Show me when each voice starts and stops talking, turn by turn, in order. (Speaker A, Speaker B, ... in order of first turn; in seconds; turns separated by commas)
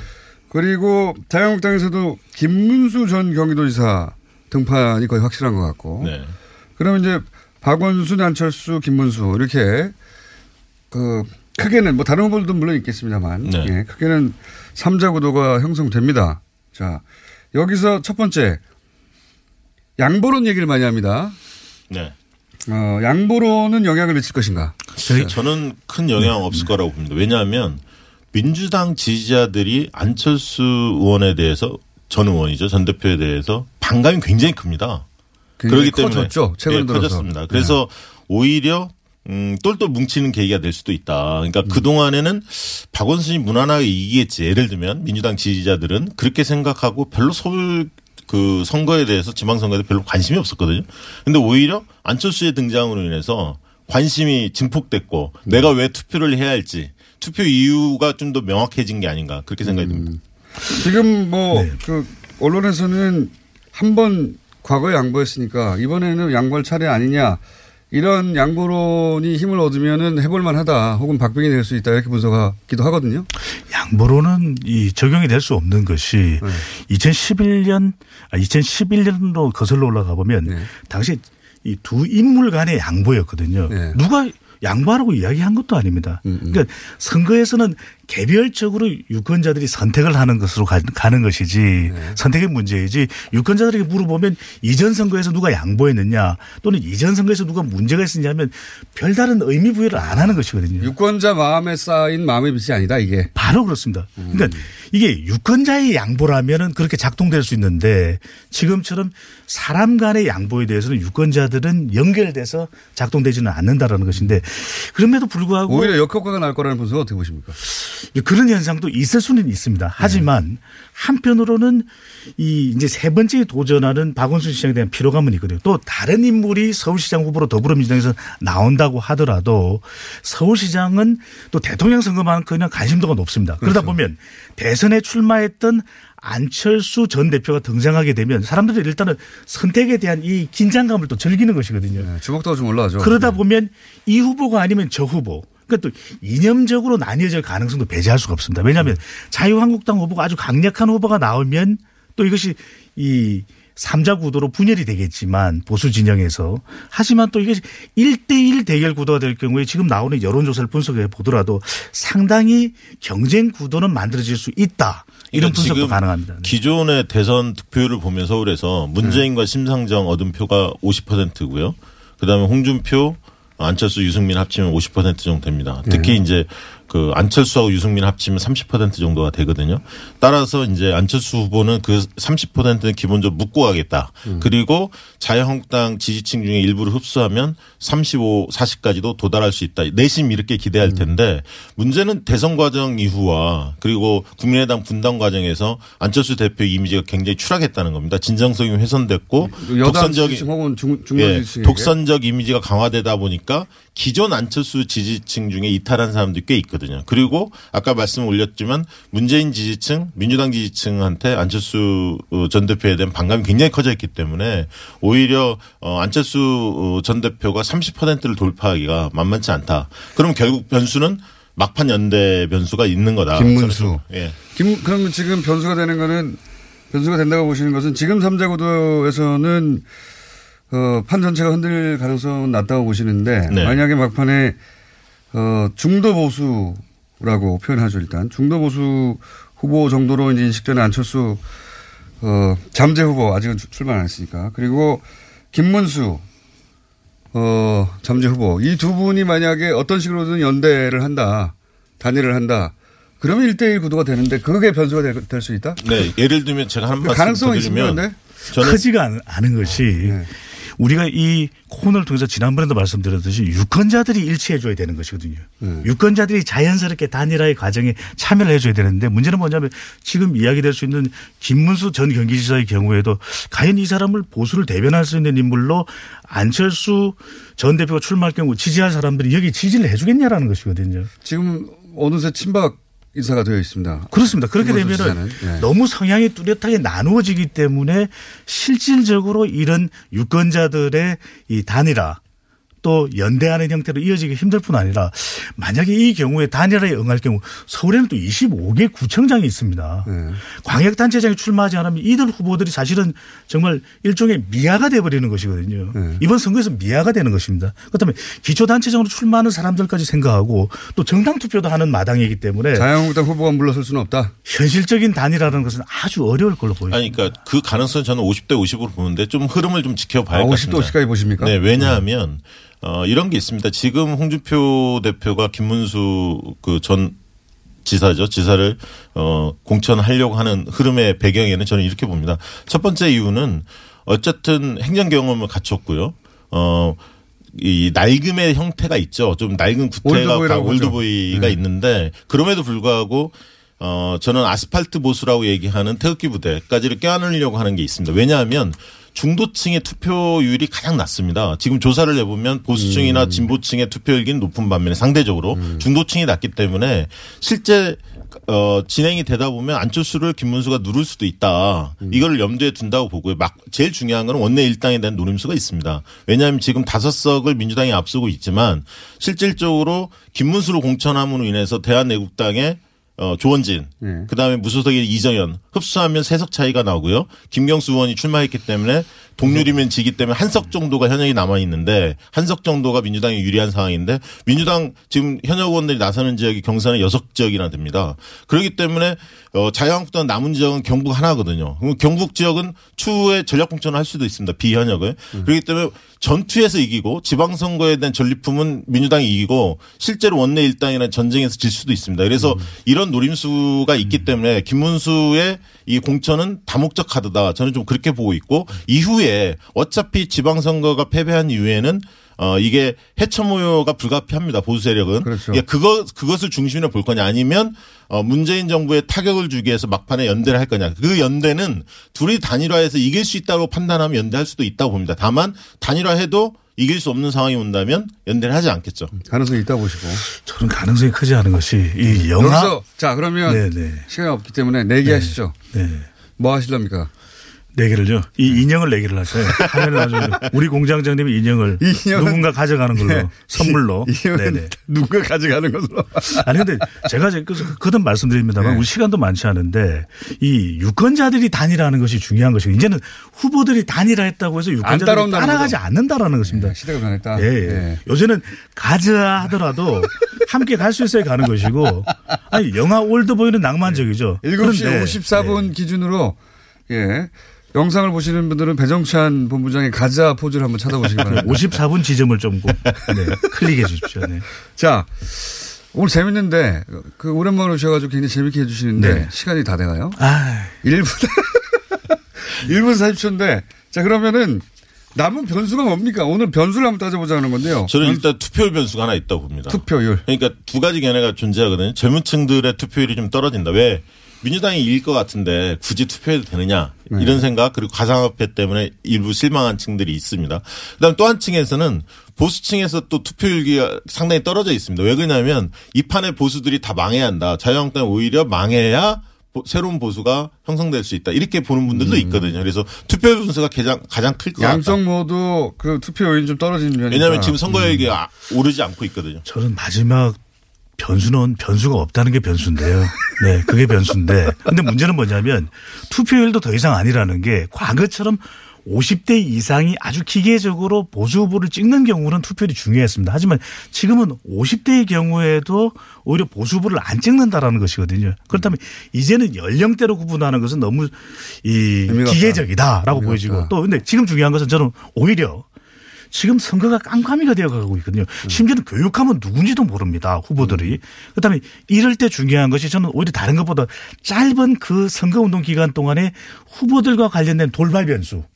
Speaker A: 0.5-6.1, Speaker B: 6.0-6.3, Speaker A: 6.8-9.9, Speaker A: 10.9-17.0, Speaker B: 13.4-13.7, Speaker A: 17.5-18.6, Speaker A: 20.0-21.4, Speaker A: 22.7-25.3, Speaker C: 25.0-25.4, Speaker B: 25.1-27.8, Speaker C: 26.2-26.7, Speaker B: 28.3-35.0, Speaker A: 35.6-37.8, Speaker B: 35.6-60.1, Speaker A: 59.6-73.3, Speaker C: 73.7-100.9, Speaker A: 76.4-76.7, Speaker A: 83.7-84.0, Speaker A: 86.2-86.6, Speaker A: 91.8-92.2, Speaker A: 99.9-103.3, Speaker C: 103.3-116.0, Speaker A: 104.2-104.7, Speaker A: 114.1-114.4, Speaker A: 115.7-117.6, Speaker C: 117.8-142.1, Speaker A: 120.0-120.2, Speaker A: 133.6-134.0, Speaker A: 141.9-143.4, Speaker C: 143.0-166.6, Speaker B: 165.3-200.5, Speaker A: 175.8-176.2, Speaker A: 184.2-184.5, Speaker A: 190.8-191.1, Speaker A: 199.4-201.9, Speaker B: 201.1-224.4, Speaker A: 223.3-226.4, Speaker A: 226.9-229.8, Speaker A: 230.7-234.6, Speaker B: 233.5-233.8, Speaker A: 235.3-241.4, Speaker A: 242.2-246.2, Speaker A: 247.3-255.9, Speaker B: 255.8-258.8, Speaker A: 257.0-258.2, Speaker C: 258.5-281.1, Speaker A: 260.0-260.3, Speaker A: 265.6-265.9, Speaker A: 281.2-285.7, Speaker C: 284.1-292.2, Speaker C: 292.8-312.9, Speaker A: 300.1-300.4, Speaker A: 305.9-306.2, Speaker A: 312.7-314.3, Speaker C: 314.4-317.3, Speaker B: 316.9-327.1, Speaker A: 320.3-321.9, Speaker B: 327.8-337.0, Speaker B: 337.5-429.1, Speaker A: 340.0-341.6, Speaker A: 352.8-353.5, Speaker A: 355.5-355.9, Speaker A: 374.0-374.3, Speaker A: 379.4-379.7, Speaker A: 402.4-402.7, Speaker A: 415.2-415.6, Speaker A: 429.1-430.2, Speaker C: 430.1-432.8, Speaker A: 432.1-435.6, Speaker C: 433.4-434.1, Speaker C: 435.0-436.1, Speaker A: 436.4-437.1, Speaker C: 437.7-444.7, Speaker A: 441.8-446.9, Speaker C: 446.3-456.8, Speaker A: 448.6-448.9, Speaker A: 454.8-455.8, Speaker A: 456.4-458.0, Speaker C: 457.3-465.7, Speaker A: 463.8-466.4, Speaker A: 466.9-471.7, Speaker C: 471.2-474.4, Speaker A: 474.7-480.2, Speaker C: 478.9-479.3, Speaker C: 480.2-480.8, Speaker A: 480.8-488.2, Speaker B: 487.9-515.0, Speaker A: 489.7-490.2, Speaker A: 497.1-497.5, Speaker A: 511.9-512.5, Speaker A: 514.6-517.7, Speaker B: 517.1-519.4, Speaker C: 517.7-518.0, Speaker C: 519.4-520.4, Speaker C: 521.0-545.6, Speaker A: 542.1-543.7, Speaker C: 546.3-558.5, Speaker A: 550.6-551.0